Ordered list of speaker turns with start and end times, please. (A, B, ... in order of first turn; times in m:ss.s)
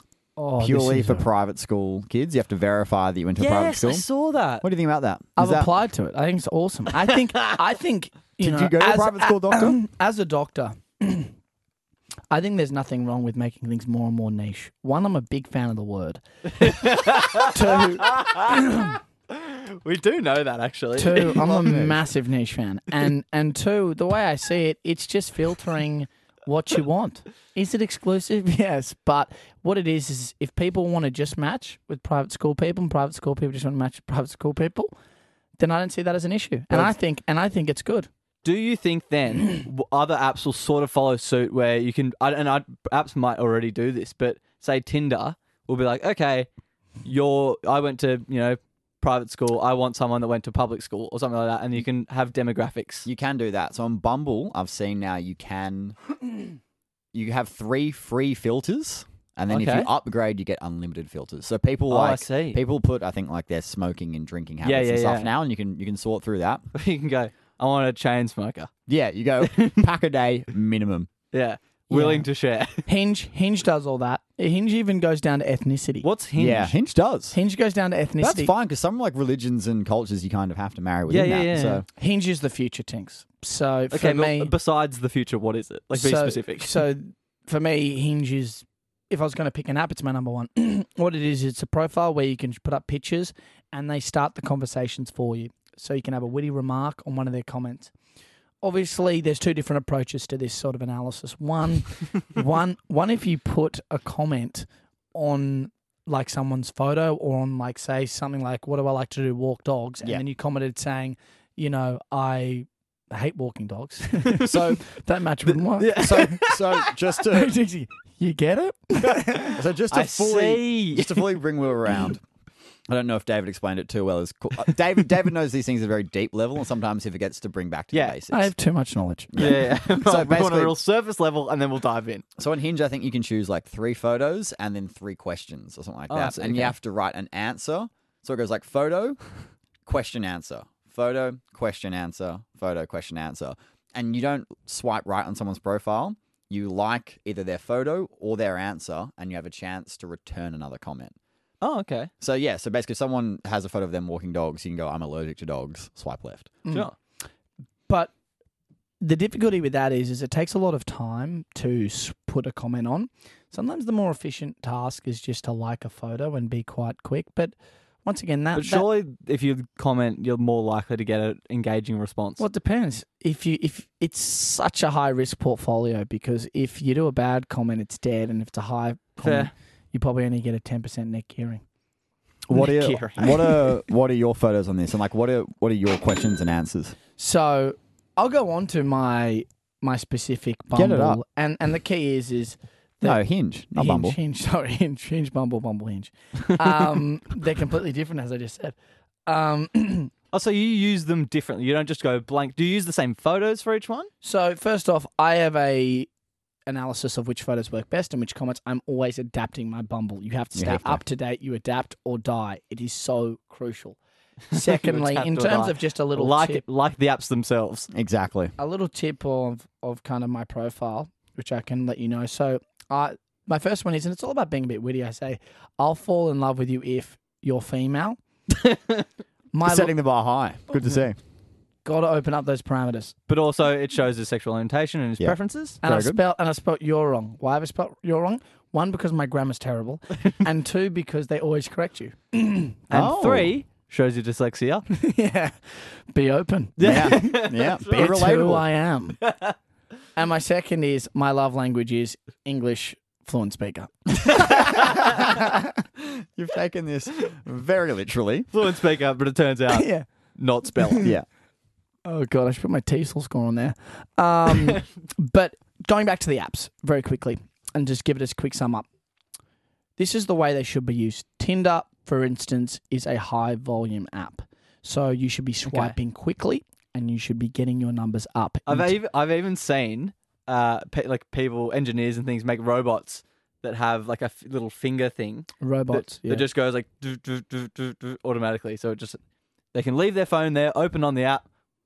0:00.4-0:01.3 A
0:00.6-0:04.1 B
0:03.4-0:04.6 C
0:04.6-0:05.7 B
0:05.4-0:11.3 A
0:07.0-0:07.3 C
0:08.4-0:09.8 B
0:12.3-0:16.8 A
0:16.6-0:18.7 C
0:17.4-0:19.0 A
0:19.3-0:21.5 C
0:21.0-0:34.9 A
0:21.4-0:22.0 B
0:35.6-0:38.1 A
0:38.4-0:46.5 C
0:47.0-0:53.1 C
0:53.0-0:56.0 B
0:57.1-1:06.6 B
0:59.5-0:59.9 C
1:01.9-1:02.6 C
1:04.6-1:05.3 C
1:06.7-1:08.7 C
1:08.9-1:11.1 B
1:09.4-1:09.9 C
1:11.3-1:12.9 C
1:11.9-1:12.3 A
1:12.9-1:16.1 A
1:16.0-1:16.7 C
1:16.4-1:17.4 B
1:17.3-1:18.5 A
1:18.2-1:21.8 B
1:21.1-1:21.8 C
1:21.9-1:24.5 A
1:23.9-1:26.8 C
1:25.9-1:37.9 A
1:38.6-1:56.5 A
1:54.3-1:54.6 C
1:54.5-1:54.8 B
1:55.7-1:56.9 C
1:56.0-1:57.6 B
1:57.2-1:59.6 A
1:59.6-2:02.2 B
1:59.9-2:01.4 C
2:02.9-2:08.5 B
2:08.3-2:09.4 A
2:09.3-2:10.8 B
2:09.4-2:12.3 C
2:12.4-2:19.2 B
2:16.1-2:16.7 C
2:19.9-2:31.2 B
2:31.6-2:32.1 C
2:32.2-2:36.6 B
2:39.0-2:48.9 A
2:48.6-2:52.4 C
2:52.4-3:01.6 A
2:59.2-2:59.5 C
3:02.5-3:07.0 B
3:02.5-3:03.6 C
3:07.2-3:13.2 A
3:10.8-3:11.2 B
3:13.0-3:14.2 B
3:13.8-3:18.8 A
3:19.3-3:20.1 A
3:20.3-3:24.1 C
3:24.2-3:26.1 A
3:26.7-3:34.0 A
3:30.6-3:31.0 B
3:34.5-3:36.6 A
3:34.5-3:37.9 C
3:37.9-3:38.5 B
3:38.6-3:48.2 A
3:48.5-3:49.0 C
3:49.5-3:49.9 A
3:49.6-3:51.2 B
3:51.8-3:53.2 A
3:53.3-3:55.8 C
3:55.2-3:56.2 B
3:55.8-4:02.8 A
4:02.9-4:04.9 C
4:02.9-4:03.5 B
4:04.9-4:09.2 A
4:06.8-4:08.1 C
4:06.8-4:08.6 B
4:09.2-4:09.6 C
4:10.2-4:15.6 A
4:15.0-4:15.4 B
4:16.0-4:18.5 B
4:18.5-4:21.1 C
4:19.7-4:20.1 A
4:22.1-4:28.9 A
4:30.0-4:39.0 A
4:35.7-4:36.0 C
4:38.7-4:49.2 C
4:45.6-4:46.5 A
4:49.7-4:51.4 C